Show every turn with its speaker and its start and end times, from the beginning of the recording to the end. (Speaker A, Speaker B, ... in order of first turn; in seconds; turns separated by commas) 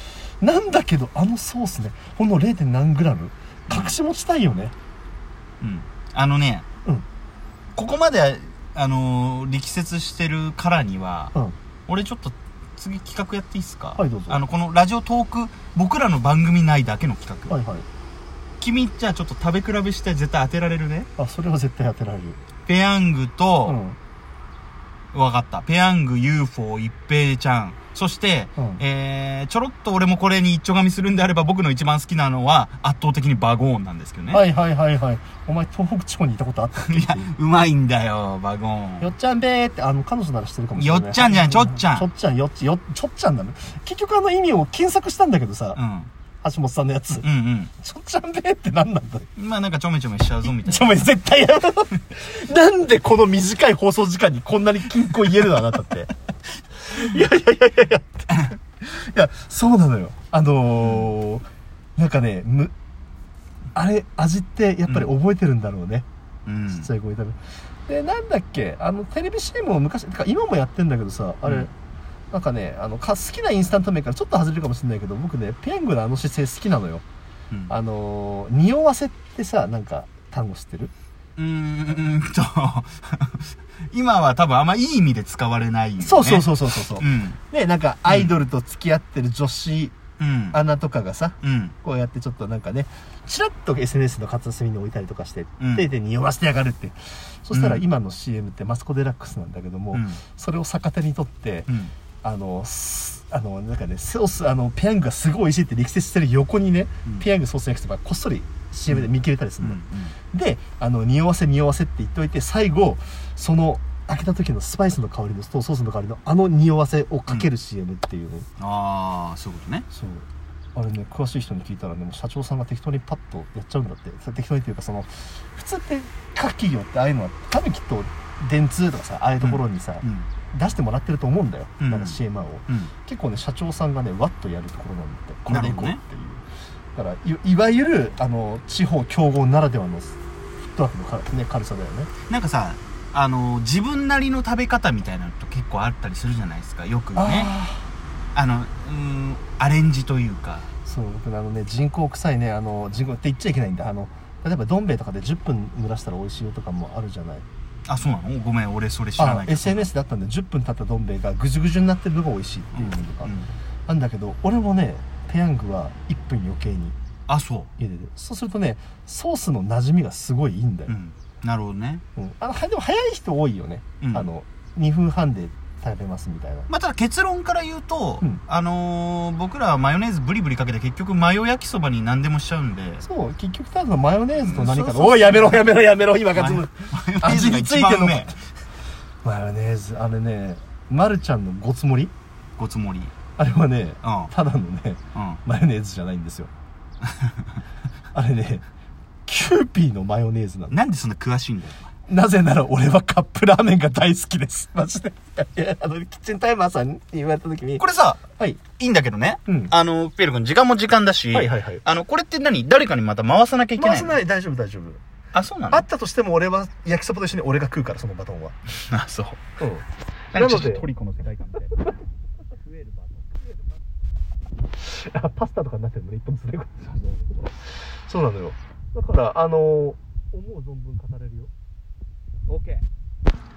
Speaker A: 0.4-4.7, Speaker B: 3.7-4.0, Speaker B: 5.6-6.7, Speaker B: 7.8-11.3, Speaker B: 11.9-17.6, Speaker A: 14.0-14.4, Speaker A: 17.5-17.9, Speaker B: 18.6-21.1, Speaker A: 21.2-22.4, Speaker B: 22.7-23.8, Speaker A: 23.7-24.0, Speaker B: 25.1-34.4, Speaker A: 28.6-28.8, Speaker A: 34.3-37.3, Speaker B: 36.8-39.1, Speaker A: 39.0-45.8, Speaker B: 40.8-42.1, Speaker B: 45.8-46.1, Speaker A: 46.4-47.3, Speaker B: 47.2-47.7, Speaker A: 47.8-49.3, Speaker B: 49.4-51.1, Speaker A: 50.5-56.1, Speaker A: 56.9-58.3, Speaker A: 58.8-61.5, Speaker B: 60.8-61.1, Speaker A: 62.0-62.7, Speaker A: 63.8-66.1, Speaker B: 66.5-66.9, Speaker A: 66.7-71.7, Speaker A: 72.3-77.0, Speaker A: 77.7-80.9, Speaker B: 81.4-87.4, Speaker A: 86.0-90.0, Speaker B: 88.1-88.4, Speaker B: 90.2-90.6, Speaker A: 90.5-101.7, Speaker B: 91.4-91.8, Speaker B: 95.6-95.9, Speaker B: 97.5-97.8, Speaker B: 99.9-100.2, Speaker B: 101.7-101.9, Speaker A: 102.2-109.8, Speaker B: 109.6-110.2, Speaker A: 110.3-118.5, Speaker B: 118.6-119.8, Speaker A: 119.9-136.4, Speaker B: 129.4-130.3, Speaker B: 131.8-132.9, Speaker B: 135.5-136.0, Speaker A: 136.9-140.2, Speaker A: 140.7-142.1, Speaker B: 142.3-147.5, Speaker A: 147.2-147.9, Speaker B: 148.3-150.7, Speaker A: 150.8-157.5, Speaker B: 157.9-159.9, Speaker A: 159.2-163.3, Speaker B: 162.7-163.5, Speaker A: 163.9-167.0, Speaker B: 167.3-167.7, Speaker A: 167.8-170.9, Speaker B: 170.9-172.0, Speaker A: 172.2-176.7, Speaker B: 174.0-174.3, Speaker B: 176.7-183.0, Speaker A: 183.0-188.4, Speaker B: 184.4-185.7, Speaker B: 186.3-188.3, Speaker A: 189.2-192.1, Speaker B: 192.6-193.1, Speaker A: 193.4-196.5, Speaker B: 194.0-194.3, Speaker B: 195.2-195.4, Speaker B: 197.1-197.5, Speaker A: 198.1-198.7, Speaker A: 199.3-200.8, Speaker B: 200.7-201.9, Speaker A: 202.1-207.8, Speaker B: 207.8-208.2, Speaker B: 208.8-214.2, Speaker A: 209.5-209.7, Speaker A: 211.3-211.8, Speaker A: 213.8-215.0, Speaker B: 215.3-215.9, Speaker A: 215.7-218.6, Speaker B: 218.8-219.4, Speaker A: 219.6-220.9, Speaker B: 220.3-221.8, Speaker B: 222.7-223.2, Speaker A: 224.8-227.5, Speaker A: 228.1-231.5, Speaker B: 232.5-232.8